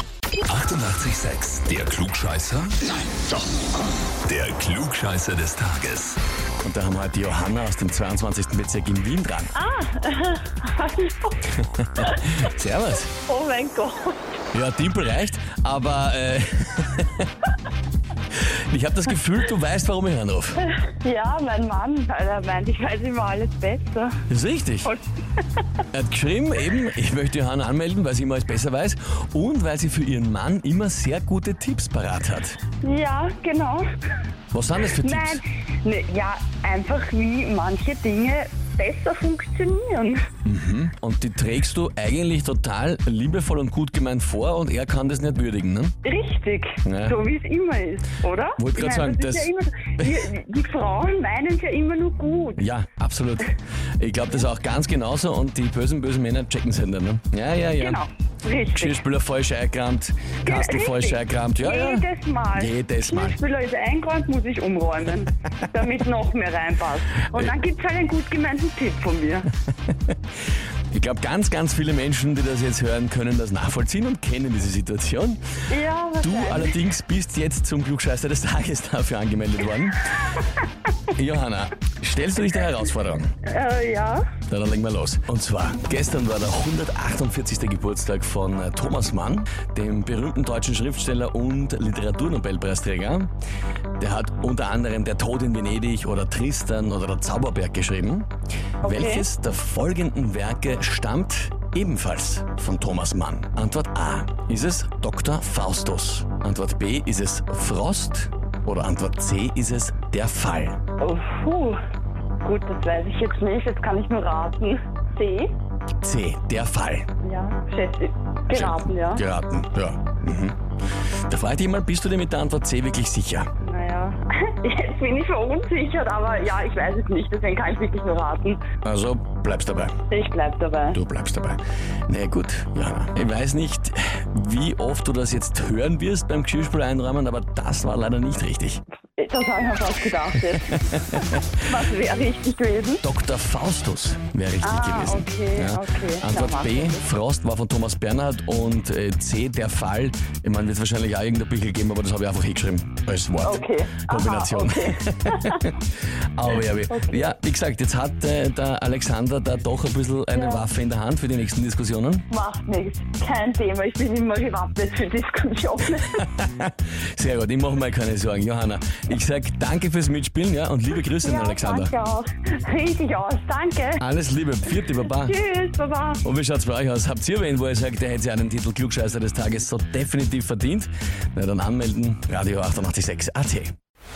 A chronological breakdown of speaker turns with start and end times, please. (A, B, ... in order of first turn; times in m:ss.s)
0:00.4-0:03.2 A
0:04.2-0:06.2 A
0:06.6-0:09.5 B
0:09.5-0:11.4 C
0:11.6-0:13.1 B
0:12.0-0:12.4 C
0:13.3-0:14.4 C
0:14.5-0:17.3 B
0:18.3-0:20.6 B
0:20.8-0:24.2 C
0:24.3-0:24.9 B
0:25.9-0:32.6 B
0:32.8-0:33.8 C
0:34.5-0:35.4 B
0:35.0-0:40.2 C
0:40.4-0:46.0 B
0:46.0-0:52.6 C
0:46.8-0:47.2 B
0:48.6-0:50.2 B
0:52.6-0:58.0 B
0:57.8-0:59.0 C
0:58.7-1:03.4 B
1:00.4-1:09.5 C
1:10.9-1:15.4 B
1:15.7-1:16.7 C
1:16.2-1:20.3 B
1:21.1-1:23.3 B
1:23.4-1:24.2 C
1:24.5-1:33.3 B
1:34.0-1:38.3 B
1:38.8-1:39.2 C
1:38.8-1:50.8 B
1:51.0-1:51.8 C
1:52.4-1:55.6 C
1:56.0-1:57.1 B
1:57.2-1:59.2 C
1:58.5-2:00.6 B
2:01.3-2:03.5 B
2:03.6-2:08.6 C
2:08.8-2:09.9 B
2:10.1-2:11.0 C
2:10.9-2:18.8 B
2:19.2-2:23.0 C
2:20.5-2:21.4 B
2:23.0-2:42.2 B
2:24.6-2:27.0 C
2:33.4-2:35.7 C
2:36.7-2:37.3 C
2:40.3-2:40.6 C
2:42.3-2:46.2 C
2:46.3-2:51.9 B
2:51.2-2:54.0 C
2:54.0-2:55.4 B
2:55.1-2:56.2 C
2:56.2-3:03.7 B